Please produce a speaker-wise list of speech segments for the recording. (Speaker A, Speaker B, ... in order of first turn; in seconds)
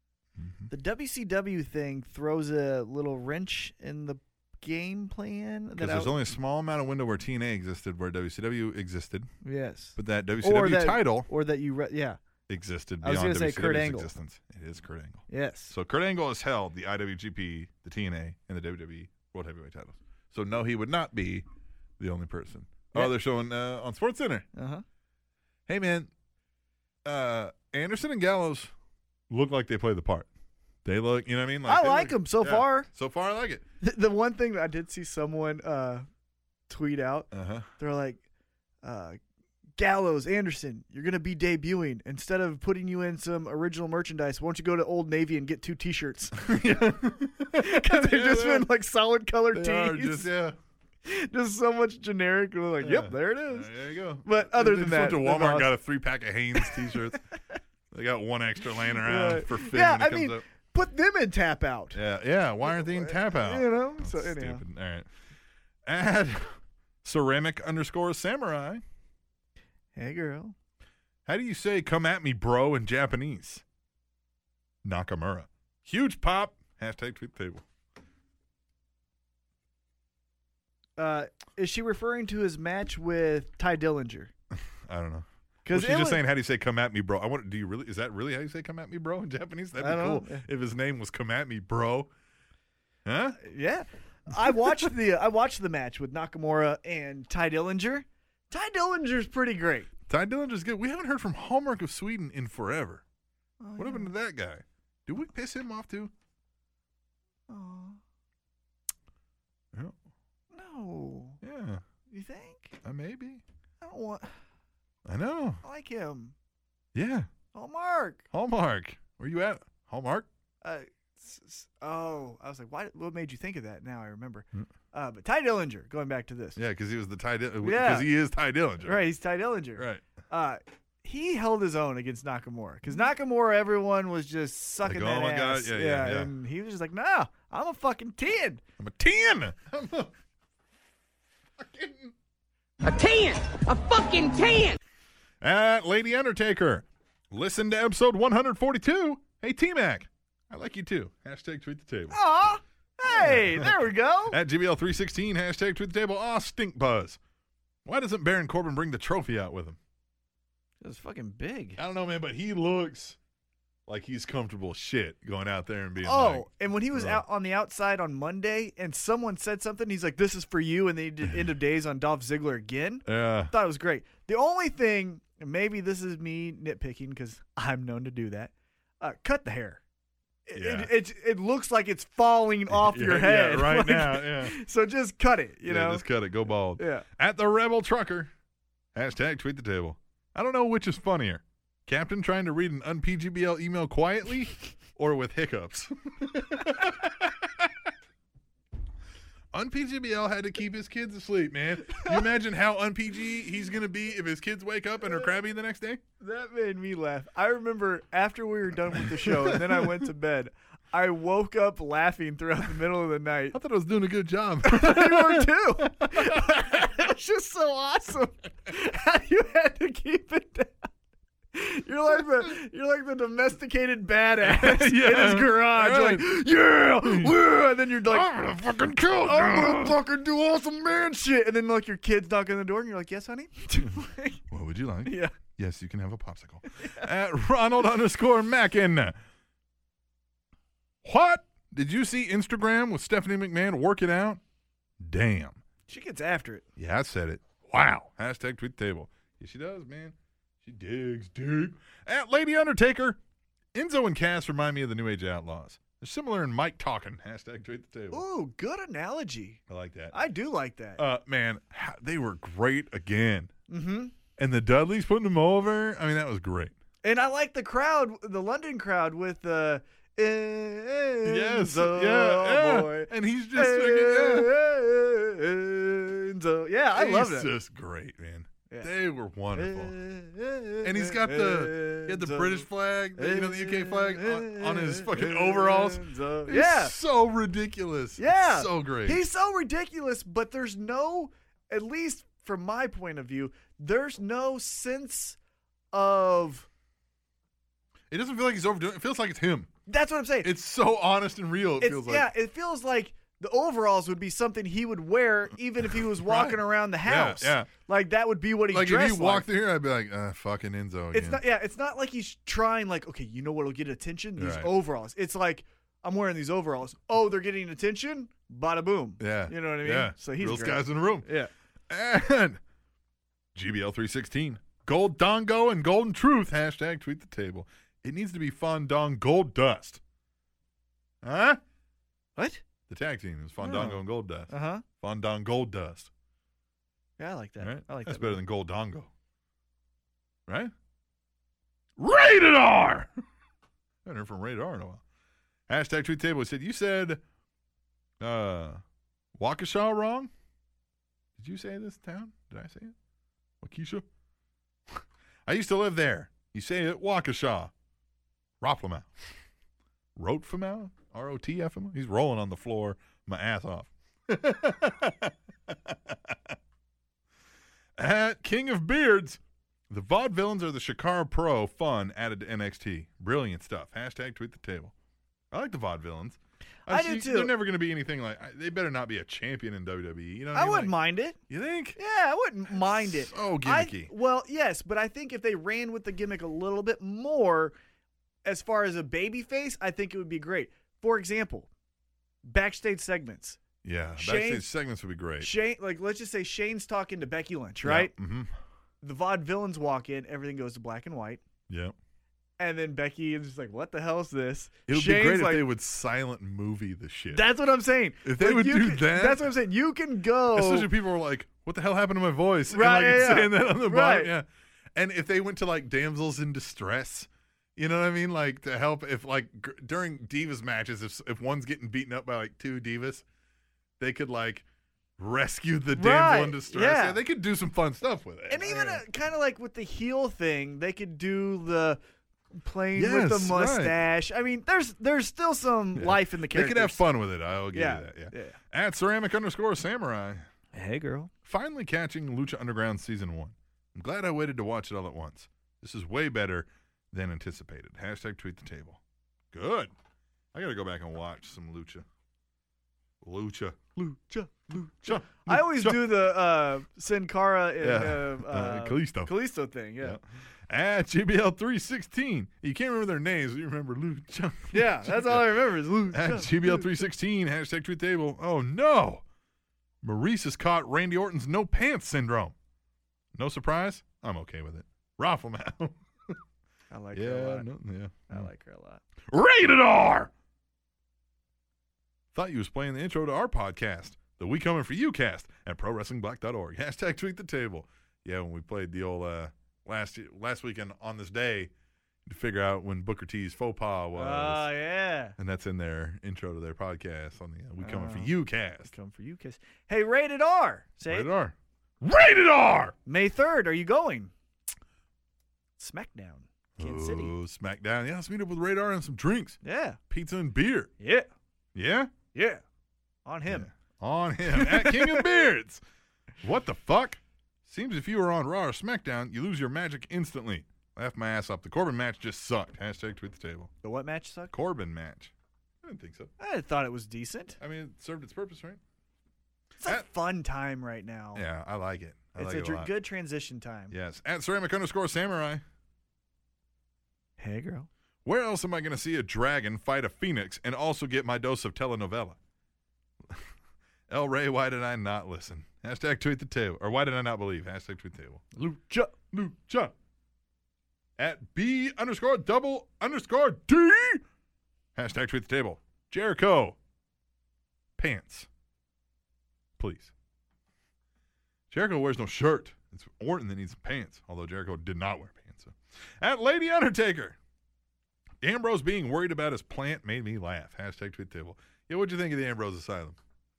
Speaker A: 0.4-0.7, 5.8-9.3, 10.0-11.3, 12.5-21.4, 22.0-24.5, 25.7-26.1, 27.1-28.7, 29.3-30.3, 30.9-33.6, 37.3-37.7, 46.4-48.7, 49.5-50.6, 52.8-57.2, 57.9-60.5, 61.9-65.1, 65.9-68.8, 71.3-73.6, 74.8-77.6, 84.5-92.1, 93.0-93.4, 100.1-103.0, 103.8-106.1, 111.4-111.8, 112.8-113.4, 115.1-115.6, 117.0-117.3, 118.3-120.3, 126.6-129.0, 129.8-130.1, 134.8-136.3, 138.8-140.1, 141.6-142.1, 145.4-152.2, 153.1-157.2, 157.8-159.8, 161.8-163.2, 163.9-167.2, 173.1-173.5, 180.6-180.9, 182.7-184.6, 185.7-188.3, 188.9-197.7, 199.5-206.0, 209.2-209.9, 213.5-216.9, 224.4-226.3, 227.0-227.3, 228.1-230.0, 234.5-239.2, 241.0-244.4, 245.0-245.6, 246.8-253.2, 253.7-258.2, 259.7-260.2, 261.0-263.5, 264.4-266.8, 271.2-274.5, 276.9-280.0, 280.8-289.2, 298.1-299.7, 300.4-302.3, 305.9-307.7, 308.7-311.4, 314.4-314.7, 319.2-321.3, 321.9-322.6, 323.6-330.0, 331.2-331.6, 332.9-336.1, 337.6-339.1, 340.5-340.7, 342.0-343.1, 344.1-345.0, 345.7-347.2, 348.2-348.8, 349.4-350.3, 351.4-352.9, 353.6-354.1, 354.9-357.7, 358.6-359.1, 360.2-366.6, 368.0-374.9, 375.5-380.9, 381.5-382.0, 382.8-384.1, 393.8-395.5, 397.8-398.5, 401.7-401.9, 404.9-407.5, 408.2-409.5, 410.5-414.4, 415.0-423.2, 424.0-424.6, 425.2-429.0, 432.9-434.0, 436.0-440.5, 441.4-449.0, 449.5-449.9, 450.5-452.1, 453.2-454.0, 455.0-456.1, 457.8-459.3, 460.0-469.2, 470.0-472.6, 473.4-476.4, 477.1-478.5, 479.3-480.3, 482.3-491.7, 492.3-494.7, 495.4-498.9, 501.1-502.9, 506.8-510.9, 511.8-512.1, 513.5-515.8, 516.4-523.7, 524.5-525.3, 525.8-526.3, 527.6-528.8, 531.4-532.9, 533.9-535.6, 538.2-542.4, 544.1-548.5, 549.3-549.9, 551.2-554.2, 555.0-556.8, 558.0-558.5, 559.8-560.1, 561.7-567.4, 568.4-573.2
Speaker B: 0.7-6.2, 9.4-12.2, 13.0-14.1, 15.3-15.7, 24.5-24.9, 31.7-32.9, 33.8-36.1, 36.7-38.2, 38.8-39.2, 39.8-46.5, 47.5-50.3, 51.0-53.7, 54.2-55.7, 56.5-57.0, 58.8-62.0, 62.7-64.6, 69.9-70.5, 81.0-84.3, 85.7-86.2, 89.8-90.5, 93.4-99.9, 103.6-104.1, 107.5-108.0, 110.5-111.4, 112.1-112.8, 113.8-114.4, 115.6-116.3, 117.5-118.3, 120.6-126.6, 127.6-128.1, 128.8-138.6, 152.1-154.4, 160.8-161.8, 166.0-179.8, 180.5-186.1, 186.8-187.1, 202.0-202.3, 206.2-213.6, 214.6-220.9, 221.5-228.3, 229.2-234.4, 235.1-235.3, 236.8-237.1, 245.9-246.7, 258.1-259.6, 260.1-261.0, 263.7-264.1, 267.0-277.5, 279.5-286.9, 288.2-295.4, 295.9-296.7, 299.9-300.5, 301.8-309.5, 311.1-321.5, 332.4-332.6, 333.6-334.9, 337.2-338.4, 376.9-377.5, 380.5-381.4, 382.0-387.8, 388.4-391.7, 392.4-393.6, 394.2-394.7, 395.4-398.1, 399.0-401.4, 402.6-405.7, 407.3-410.9, 412.7-414.3, 425.9-427.2, 428.5-432.0, 432.5-437.0, 437.7-438.6, 440.7-441.3, 454.0-460.2, 464.7-466.9, 476.9-477.7, 478.3-479.0, 494.1-495.4, 497.8-498.3, 498.9-501.3, 503.1-504.3, 505.8-507.3, 509.6-510.0, 511.0-511.3, 512.3-512.6, 513.2-513.7, 514.5-515.3, 523.8-524.5, 526.4-527.6, 529.8-531.4, 532.4-533.9, 537.4-537.9, 548.5-549.2
Speaker C: 142.8-144.8